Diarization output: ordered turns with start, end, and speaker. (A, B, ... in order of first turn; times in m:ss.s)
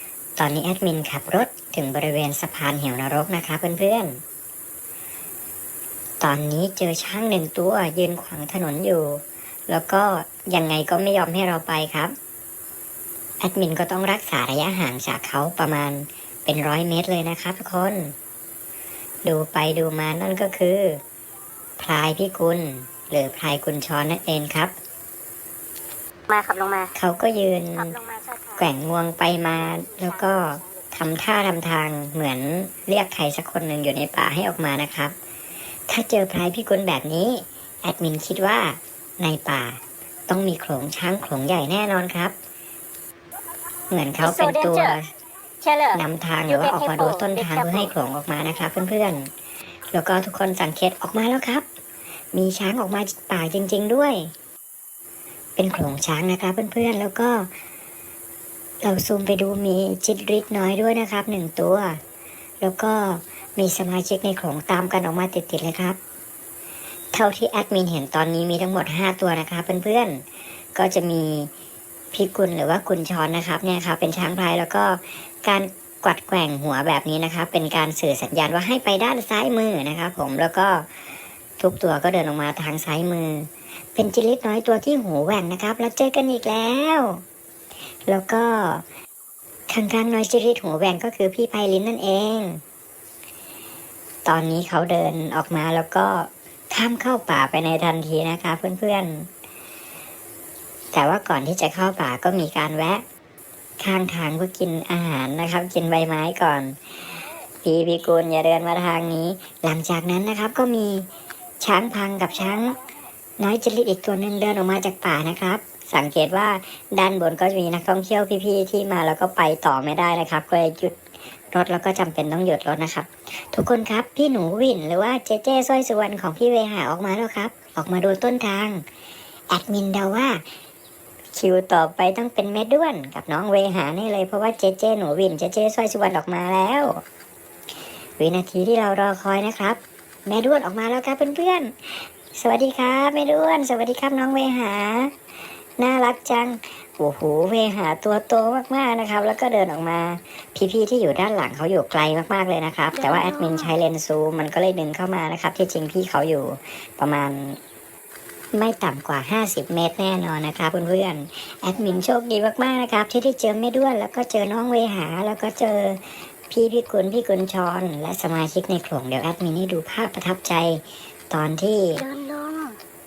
0:00.4-0:04.2 A
0:06.2-0:12.1 A
0:13.4-0:18.1 A
0:19.2-0:21.0 A
0:21.8-0:24.7 A
0:26.3-0:26.9 B
0:26.9-0:28.0 A
0:27.8-0:28.6 B
0:28.6-0:35.1 A
0:35.9-0:42.3 A
0:43.9-0:45.1 A
0:44.2-0:45.0 B
0:45.6-0:47.9 B
0:45.9-0:49.3 A
0:49.9-0:51.6 A
0:52.3-0:54.3 A
0:55.6-0:57.5 A
0:58.8-1:02.0 A
1:02.6-1:06.0 A
1:07.1-1:10.2 A
1:10.8-1:11.5 A
1:12.1-1:20.9 A
1:21.6-1:27.2 A
1:28.1-1:28.8 A
1:29.7-1:32.6 A
1:34.2-1:39.3 A
1:40.9-1:43.0 A
1:43.8-1:46.8 A
1:47.6-1:51.1 A
1:51.6-1:52.8 A
1:53.4-2:01.0 A
2:01.5-2:08.8 A
2:09.5-2:10.4 A
2:11.3-2:17.0 A
2:18.2-2:25.1 A
2:25.8-2:37.6 A
2:33.0-2:33.7 B
2:38.5-2:52.0 A
2:52.0-2:52.8 B